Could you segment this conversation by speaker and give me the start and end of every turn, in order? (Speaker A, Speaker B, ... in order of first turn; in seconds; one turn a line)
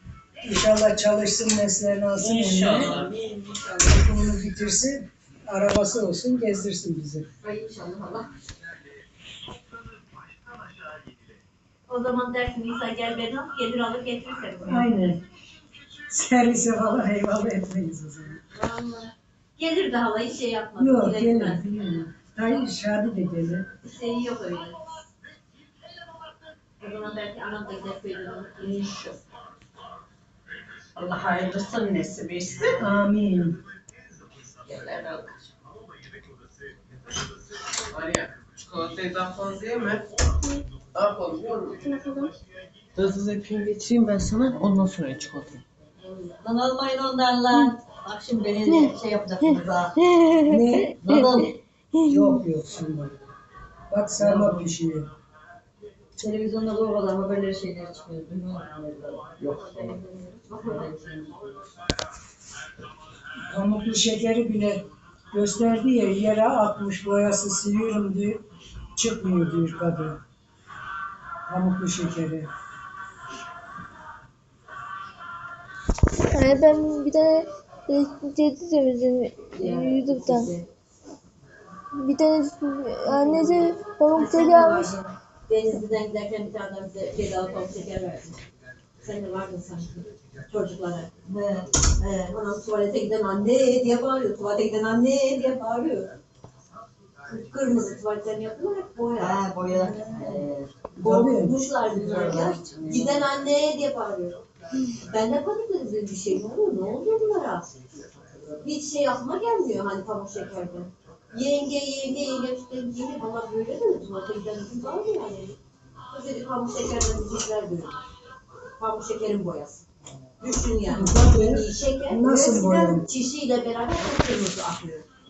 Speaker A: 0.4-3.1
Speaker B: 2.2-3.1
Speaker C: 3.1-3.7
Speaker A: 3.7-7.2
Speaker C: 7.4-8.3
Speaker C: 11.9-14.9
Speaker A: 14.7-15.2
Speaker A: 16.1-18.4
Speaker C: 18.5-21.6
Speaker A: 20.8-23.6
Speaker C: 23.8-24.9
Speaker C: 26.8-28.9
Speaker B: 28.6-29.2
Speaker B: 30.9-32.8
Speaker A: 32.8-33.6
Speaker B: 34.6-35.5
Speaker B: 37.9-40.0
Speaker B: 40.9-41.8
Speaker D: 41.8-42.3
Speaker B: 43.0-45.6
Speaker E: 46.4-50.0
Speaker D: 49.5-52.3
Speaker A: 50.4-50.9
Speaker E: 51.0-51.5
Speaker A: 52.0-53.1
Speaker A: 53.9-55.1
Speaker E: 54.2-54.7
Speaker E: 56.2-60.0
Speaker C: 59.7-60.9
Speaker E: 60.6-61.4
Speaker A: 63.5-68.4
Speaker A: 69.0-70.2
Speaker A: 71.5-72.5
Speaker D: 76.3-80.5
Speaker C: 79.5-80.7
Speaker D: 82.0-84.9
Speaker C: 83.0-88.4
Speaker C: 89.0-91.1
Speaker E: 91.2-92.3
Speaker C: 92.3-96.1
Speaker C: 97.3-100.4
Speaker E: 99.1-100.7
Speaker A: 101.0-101.5
Speaker C: 101.0-104.4
Speaker E: 101.9-103.3
Speaker C: 105.1-107.7
Speaker E: 108.1-108.7
Speaker C: 108.6-115.5
Speaker C: 116.1-118.0
Speaker C: 118.8-119.8
Speaker C: 120.4-125.0
Speaker A: 120.9-123.0